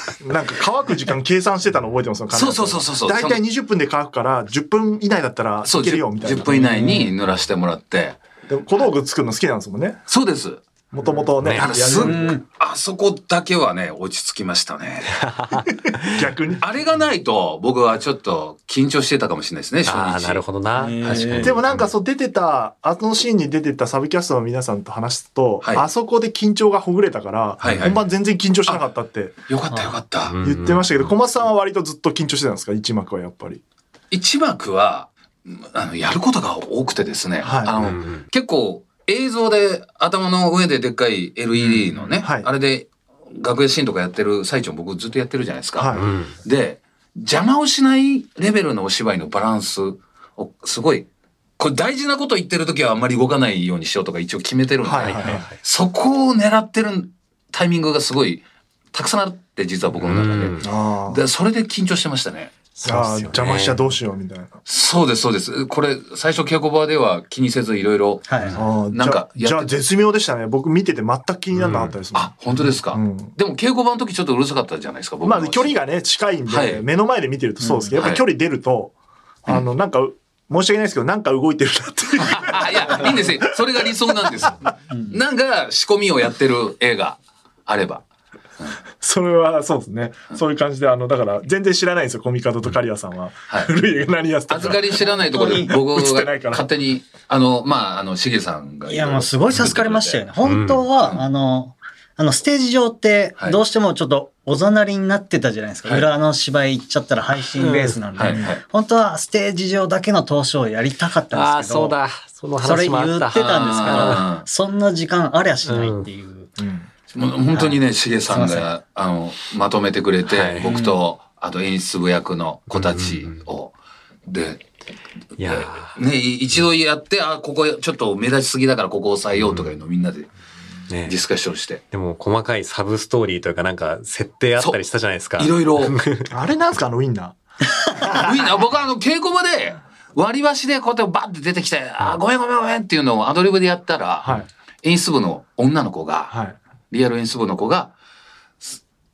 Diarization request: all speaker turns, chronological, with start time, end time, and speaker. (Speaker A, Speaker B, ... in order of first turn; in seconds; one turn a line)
Speaker A: 0.2-6.5
Speaker B: 2.3-3.4
Speaker B: 5.6-8.2
Speaker C: 6.5-7.1
Speaker A: 8.5-10.0
Speaker B: 10.1-10.6
Speaker A: 10.9-12.4
Speaker D: 11.4-11.7
Speaker B: 11.4-15.2
Speaker C: 11.9-12.4
Speaker D: 15.2-16.2
Speaker A: 16.1-16.6
Speaker B: 16.6-20.4
Speaker D: 19.9-21.8
Speaker C: 20.8-21.6
Speaker A: 21.4-29.4
Speaker B: 27.6-28.0
Speaker D: 27.7-27.9
Speaker B: 29.5-30.4
Speaker D: 30.3-31.1
Speaker A: 30.4-33.6
Speaker B: 34.1-51.1
Speaker A: 37.4-37.7
Speaker D: 37.8-38.2
Speaker A: 42.2-42.5
Speaker A: 45.8-46.1
Speaker D: 45.9-46.3
Speaker B: 51.6-62.5
Speaker A: 54.8-55.5
Speaker D: 55.0-55.5
Speaker D: 60.0-60.7
Speaker A: 60.6-61.2
Speaker D: 62.8-63.8
Speaker A: 62.8-64.6
Speaker B: 64.7-69.8
Speaker C: 68.3-68.6
Speaker A: 68.5-72.3
Speaker D: 71.5-71.9
Speaker B: 72.1-75.8
Speaker A: 72.9-73.3
Speaker A: 75.2-78.9
Speaker B: 76.5-76.8
Speaker C: 77.6-78.0
Speaker B: 78.0-78.2
Speaker A: 79.4-84.5
Speaker B: 82.3-88.0
Speaker C: 84.9-85.2
Speaker A: 89.0-96.7
Speaker B: 94.5-100.2
Speaker C: 95.1-95.7
Speaker C: 98.9-111.9
Speaker D: 100.4-100.8
Speaker D: 107.6-108.0
Speaker B: 108.2-108.6
Speaker D: 111.3-114.3
Speaker C: 112.6-116.5
Speaker B: 113.5-114.5
Speaker D: 115.7-116.1
Speaker A: 116.6-116.9
Speaker B: 117.1-123.7
Speaker C: 117.5-118.7
Speaker D: 120.2-120.7
Speaker C: 120.6-121.0
Speaker D: 122.7-123.4
Speaker B: 124.2-124.6
Speaker D: 125.4-126.0
Speaker B: 125.4-130.3
Speaker D: 129.4-129.7
Speaker D: 130.9-131.2
Speaker B: 131.1-131.8
Speaker D: 131.9-136.3
Speaker B: 135.4-135.9
Speaker A: 136.3-137.3
Speaker A: 138.0-138.3
Speaker B: 138.1-146.3
Speaker A: 146.3-146.6
Speaker B: 146.9-147.9